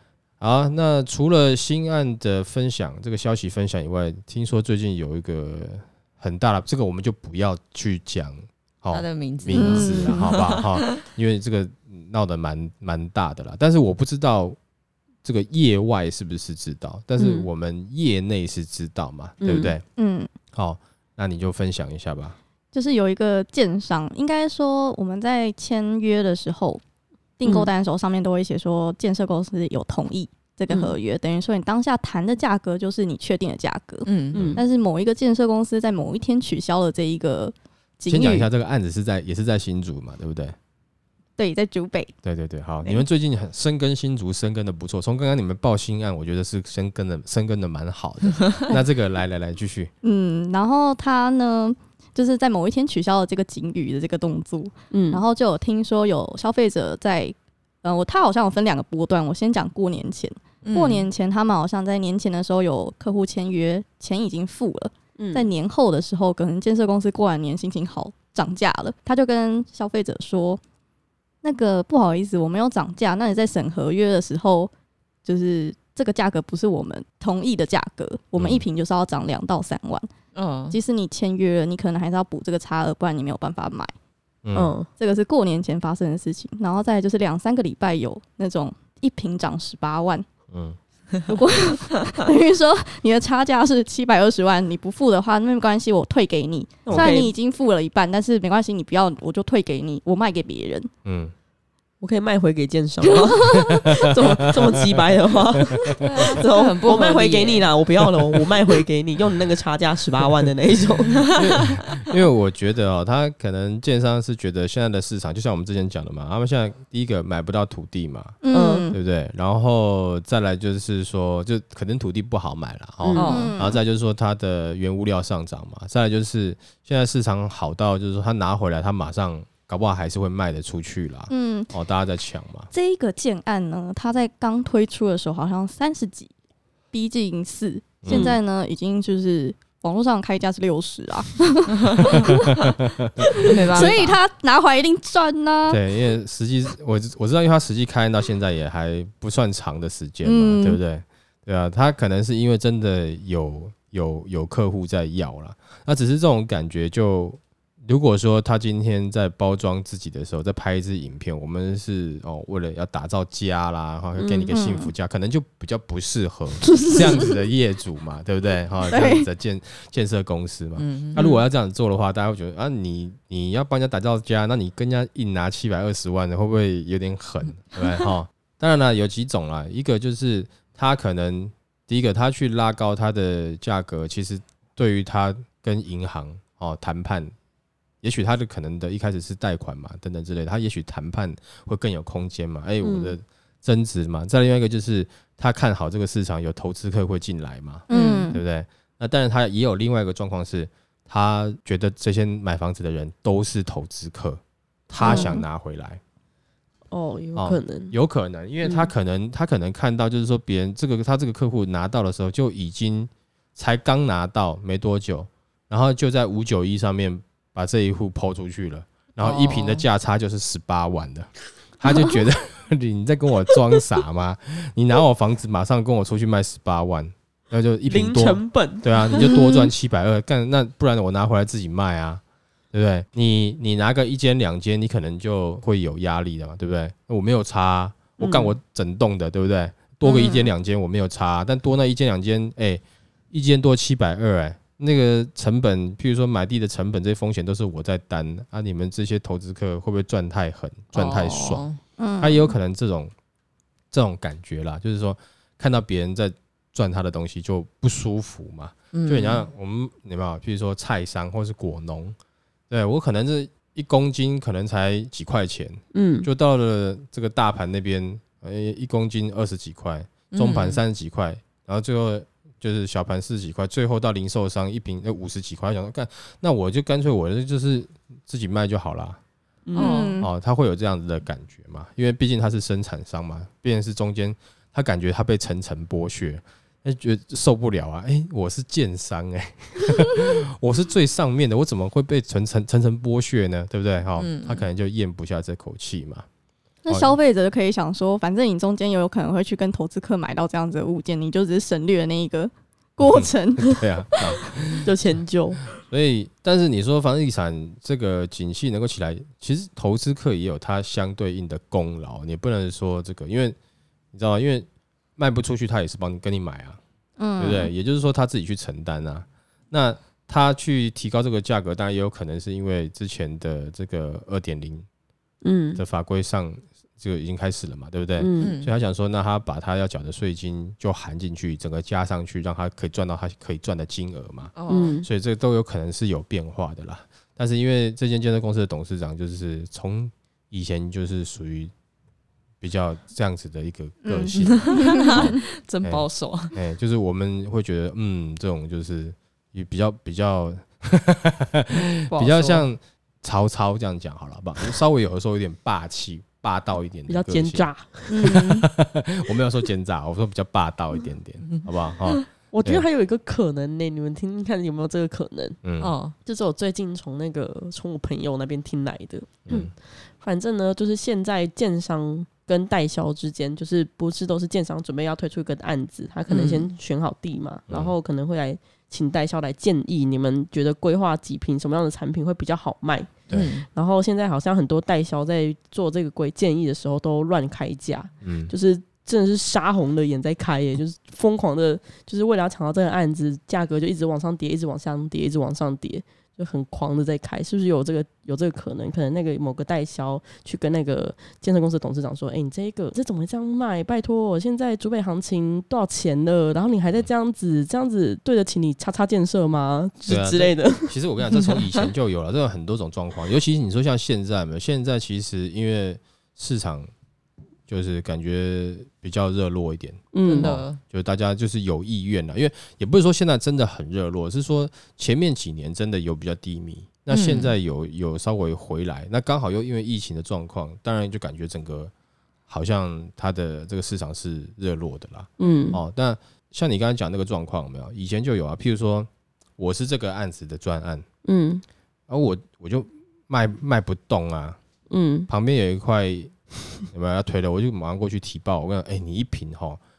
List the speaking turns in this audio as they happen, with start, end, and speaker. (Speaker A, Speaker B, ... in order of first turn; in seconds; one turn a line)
Speaker A: 0.4-14.6
Speaker B: 8.9-11.0
Speaker C: 9.5-10.4
Speaker A: 15.2-19.8
Speaker D: 17.2-17.5
Speaker D: 19.4-19.8
Speaker C: 20.0-20.3
Speaker A: 20.5-22.4
Speaker C: 22.7-26.8
Speaker C: 27.4-38.5
Speaker B: 34.1-34.6
Speaker D: 34.3-34.6
Speaker A: 34.4-34.6
Speaker A: 38.1-40.6
Speaker C: 41.4-42.1
Speaker A: 42.2-49.9
Speaker C: 50.0-70.6
Speaker D: 54.9-55.2
Speaker B: 60.6-61.1
Speaker D: 65.2-65.5
Speaker C: 71.4-74.7
Speaker C: 75.2-80.1
Speaker A: 78.4-78.7
Speaker B: 80.3-80.8
Speaker C: 80.7-83.9
Speaker A: 84.4-84.7
Speaker D: 84.5-84.9
Speaker C: 85.0-90.3
Speaker A: 90.5-90.8
Speaker C: 91.3-100.9
Speaker D: 96.9-97.3
Speaker A: 96.9-97.2
Speaker A: 101.0-101.3
Speaker D: 102.0-111.3
Speaker C: 103.1-103.8
Speaker A: 103.4-104.9
Speaker B: 106.0-107.7
Speaker A: 111.3-118.4
Speaker C: 118.4-119.0
Speaker D: 118.5-118.9
Speaker A: 118.9-132.7
Speaker D: 123.0-123.5
Speaker B: 123.2-123.6
Speaker C: 123.2-123.8
Speaker C: 131.3-131.7
Speaker C: 132.7-136.3
Speaker C: 136.9-142.6
Speaker A: 138.0-138.3
Speaker D: 138.1-138.4
Speaker B: 141.9-142.2
Speaker A: 142.1-143.9
Speaker C: 143.2-145.8
Speaker B: 143.4-144.2
Speaker A: 145.7-187.3
Speaker C: 150.2-150.8
Speaker B: 164.2-164.5
Speaker C: 164.5-164.9
Speaker C: 168.9-169.3
Speaker B: 170.8-171.3
Speaker A: 188.0-206.0
Speaker D: 192.8-193.2
Speaker C: 197.9-198.4
Speaker B: 197.9-198.3
Speaker C: 205.0-205.4
Speaker D: 205.0-205.3
Speaker D: 206.9-207.9
Speaker A: 207.4-232.2
Speaker D: 208.6-208.9
Speaker B: 219.2-219.9
Speaker D: 227.9-229.2
Speaker C: 229.2-229.7
Speaker A: 232.7-251.7
Speaker D: 238.2-238.6
Speaker C: 240.0-240.5
Speaker B: 250.9-251.8
Speaker C: 252.0-252.5
Speaker A: 252.2-253.1
Speaker A: 253.9-262.2
Speaker B: 258.9-259.5
Speaker A: 262.7-279.2
Speaker D: 265.9-266.3
Speaker B: 270.3-270.8
Speaker D: 279.7-280.1
Speaker B: 279.8-280.2
Speaker C: 279.8-280.3
Speaker A: 280.2-296.3
Speaker B: 294.2-294.7
Speaker C: 296.9-304.4
Speaker A: 296.9-297.1
Speaker A: 303.0-304.9
Speaker D: 304.8-305.6
Speaker A: 305.8-313.6
Speaker A: 314.1-316.8
Speaker C: 317.2-317.7
Speaker A: 317.4-324.9
Speaker D: 325.4-325.8
Speaker A: 325.8-341.7
Speaker D: 328.2-328.6
Speaker B: 328.4-328.7
Speaker B: 334.6-335.0
Speaker D: 334.7-335.1
Speaker A: 342.6-357.7
Speaker C: 344.1-345.4
Speaker B: 344.4-346.6
Speaker B: 351.7-352.6
Speaker D: 357.1-358.4
Speaker C: 358.1-358.7
Speaker A: 358.2-362.9
Speaker D: 362.5-365.6
Speaker A: 365.6-365.9
Speaker B: 365.8-366.2
Speaker D: 366.2-383.1
Speaker A: 369.5-369.7
Speaker B: 376.3-376.7
Speaker A: 377.7-377.9
Speaker B: 383.3-383.7
Speaker D: 383.7-411.0
Speaker A: 388.2-388.5
Speaker A: 410.1-416.9
Speaker A: 417.7-431.9
Speaker D: 420.1-420.6
Speaker B: 420.2-420.8
Speaker B: 427.1-427.5
Speaker A: 432.5-441.1
Speaker D: 435.4-435.8
Speaker D: 441.2-441.6
Speaker A: 442.1-444.6
Speaker D: 444.9-445.3
Speaker A: 445.3-449.8